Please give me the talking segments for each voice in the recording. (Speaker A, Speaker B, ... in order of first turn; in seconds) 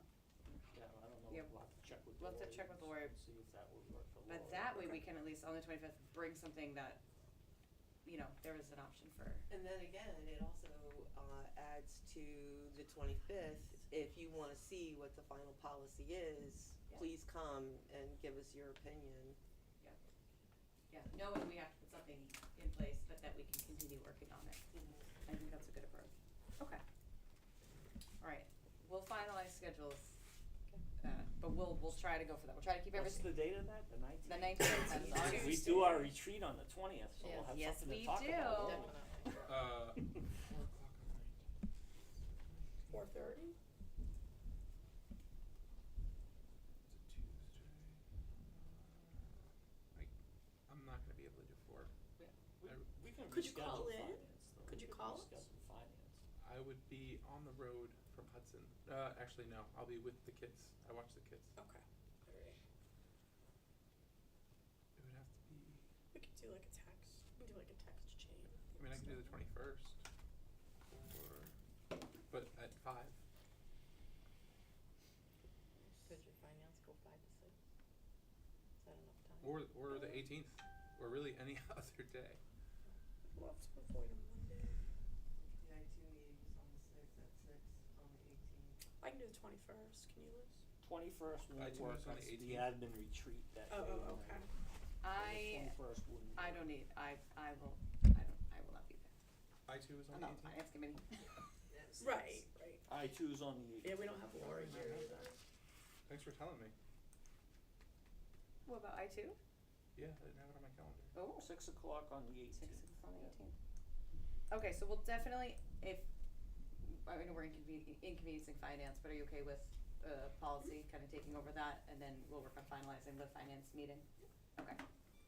Speaker A: 0.7-4.9, 32.9-39.0, 52.2-56.2, 90.8-94.5, 95.1-96.7, 102.9-104.1, 111.4-112.8
Speaker B: 1.3-1.6, 2.2-3.1, 4.3-7.0, 8.0-9.5, 20.9-24.7, 25.2-26.8, 28.2-30.2, 31.0-33.5, 34.2-36.0, 37.3-38.9, 95.0-95.8, 96.4-99.1, 100.1-101.3, 108.7-109.4, 111.2-111.5, 112.5-113.5, 114.5-116.1, 116.8-124.1
Speaker C: 9.5-19.4, 24.7-25.3, 85.4-88.8, 101.7-102.4
Speaker D: 35.3-36.1, 42.9-43.6, 53.3-55.4, 61.6-62.6, 66.1-69.4, 83.3-84.8, 89.0-90.6, 93.7-94.5, 102.0-102.9, 103.8-105.4
Speaker E: 37.2-37.6, 38.5-39.8, 76.0-77.5, 78.8-80.2
Speaker F: 39.4-41.5, 42.3-43.0, 46.9-50.1, 50.7-51.9, 56.4-61.5, 65.0-65.9, 68.7-70.0, 70.9-71.5, 72.3-73.2, 79.4-82.4, 91.6-92.8, 99.7-100.6, 104.3-105.3, 106.1-106.7, 110.0-111.1